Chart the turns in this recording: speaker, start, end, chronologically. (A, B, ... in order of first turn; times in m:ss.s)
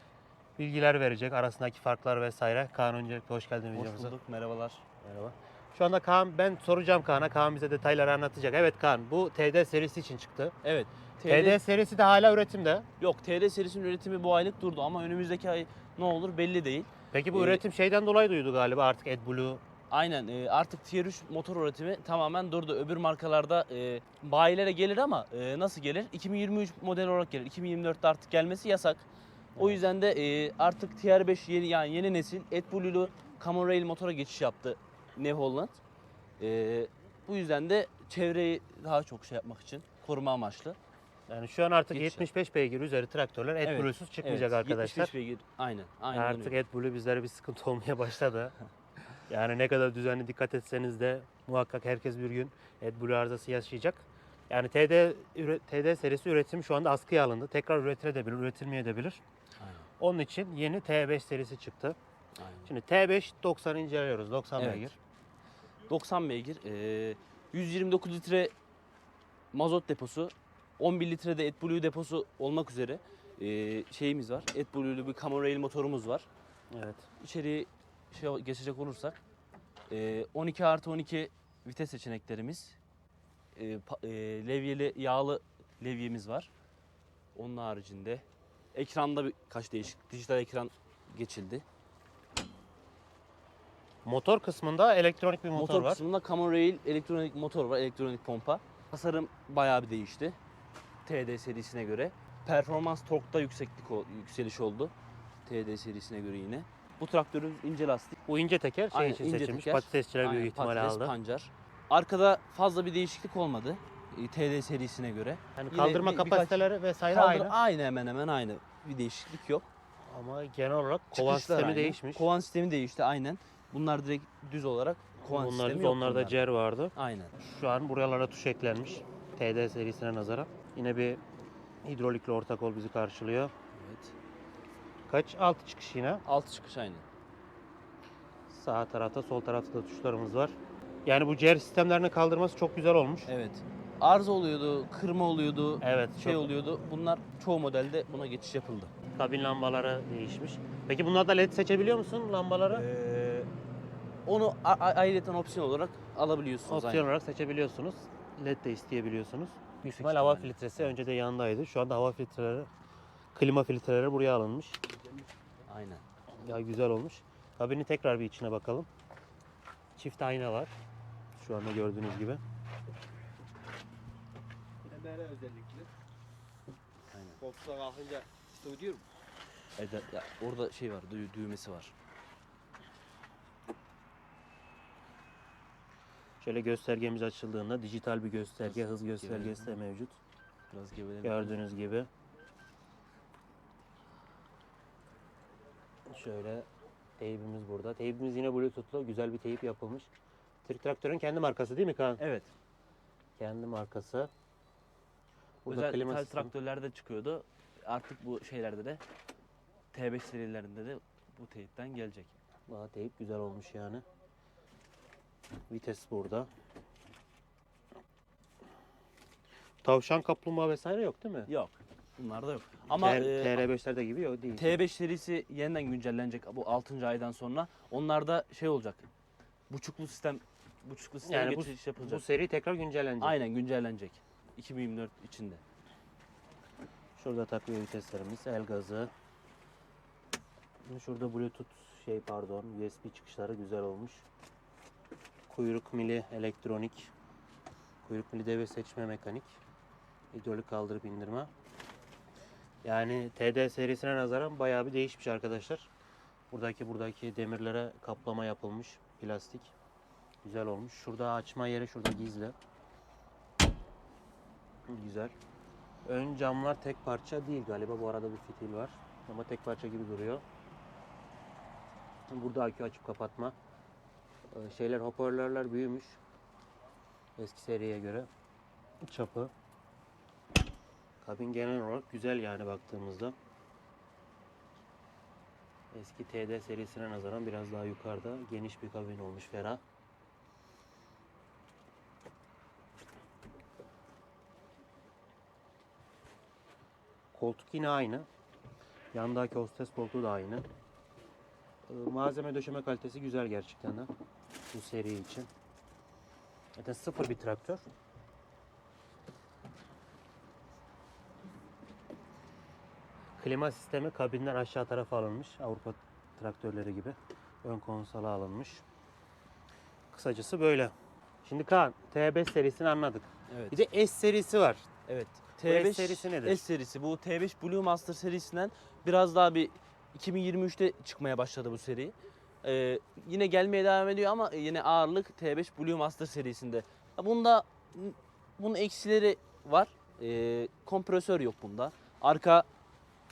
0:00.6-0:04.1 A
0:03.7-0:04.8 B
0:05.0-0:10.5 A
0:10.6-0:11.6 B
0:11.2-0:12.8 A
0:13.0-0:17.6 B
0:17.1-0:19.6 A
0:19.9-0:29.0 B
0:29.6-0:35.8 B
0:29.6-0:29.8 A
0:36.4-0:40.8 B
0:41.3-0:45.1 A
0:41.9-0:42.3 B
0:43.6-0:46.6 B
0:46.1-0:48.5 A
0:49.3-0:59.2 A
0:59.6-0:59.9 B
1:00.0-1:02.0 A
1:02.4-1:02.7 B
1:02.6-1:05.0 A
1:04.6-1:04.9 B
1:05.9-1:08.5 B
1:09.5-1:16.3 B
1:16.7-1:17.1 A
1:17.2-1:19.2 B
1:19.9-1:22.8 B
1:23.6-1:26.5 B
1:27.3-1:28.2 B
1:28.7-1:31.6 B
1:34.0-1:36.0 A
1:35.5-1:40.4 B
1:41.0-1:44.9 B
1:45.4-1:48.2 B
1:48.3-1:51.1 A
1:48.9-1:59.7 B
1:55.5-1:57.5 A
2:00.1-2:02.2 A
2:01.1-2:06.4 B
2:05.3-2:11.2 A
2:06.9-2:07.3 B
2:11.8-2:13.5 A
2:13.7-2:14.1 B
2:15.1-2:16.2 A
2:16.2-2:17.0 B
2:18.5-2:23.3 A
2:23.3-2:28.9 B
2:25.8-2:26.5 A
2:29.1-2:32.8 A
2:32.7-2:33.5 B
2:34.2-2:37.1 B
2:36.7-2:42.7 A
2:39.8-2:40.9 B
2:43.3-2:44.8 A
2:45.7-2:46.0 B
2:46.4-2:48.9 A
2:50.0-2:50.7 A
2:51.4-2:52.4 A
2:54.9-2:55.9 C
2:57.1-2:57.4 B
2:57.4-2:59.0 C
2:59.8-3:01.9 B
3:06.4-3:10.2 A
3:08.6-3:09.7 B
3:10.7-3:11.6 B
3:11.2-3:12.1 A
3:16.1-3:16.7 A
3:17.2-3:20.1 A
3:20.6-3:22.2 A
3:22.2-3:22.5 B
3:23.4-3:24.3 A
3:25.6-3:29.0 B
3:25.7-3:26.5 A
3:29.9-3:32.3 B
3:32.7-3:34.0 A
3:35.7-3:36.5 A
3:39.8-3:41.5 A
3:41.5-3:43.7 B
3:42.9-3:44.8 A
3:44.6-3:49.0 B
3:49.7-3:52.2 B
3:51.2-3:53.4 A
3:53.2-3:55.6 B
3:57.2-3:59.1 A
4:00.8-4:04.2 A
4:05.5-4:07.1 A
4:08.0-4:09.6 A
4:10.3-4:11.5 A
4:12.8-4:15.9 A
4:16.5-4:19.7 A
4:20.4-4:22.5 A
4:24.9-4:25.3 A
4:26.0-4:30.4 A
4:32.3-4:33.5 A
4:34.5-4:36.2 A
4:37.4-4:38.3 A
4:39.0-4:39.5 A
4:41.2-4:43.3 A
4:45.9-4:49.8 A
4:57.3-4:58.3 A
4:59.1-5:00.6 A
5:01.9-5:04.1 A
5:04.7-5:05.5 A
5:06.8-5:07.8 A
5:13.4-5:18.8 A
5:20.1-5:20.9 A
5:21.4-5:24.8 A
5:23.5-5:23.8 B
5:25.1-5:42.6 B
5:25.6-5:26.6 A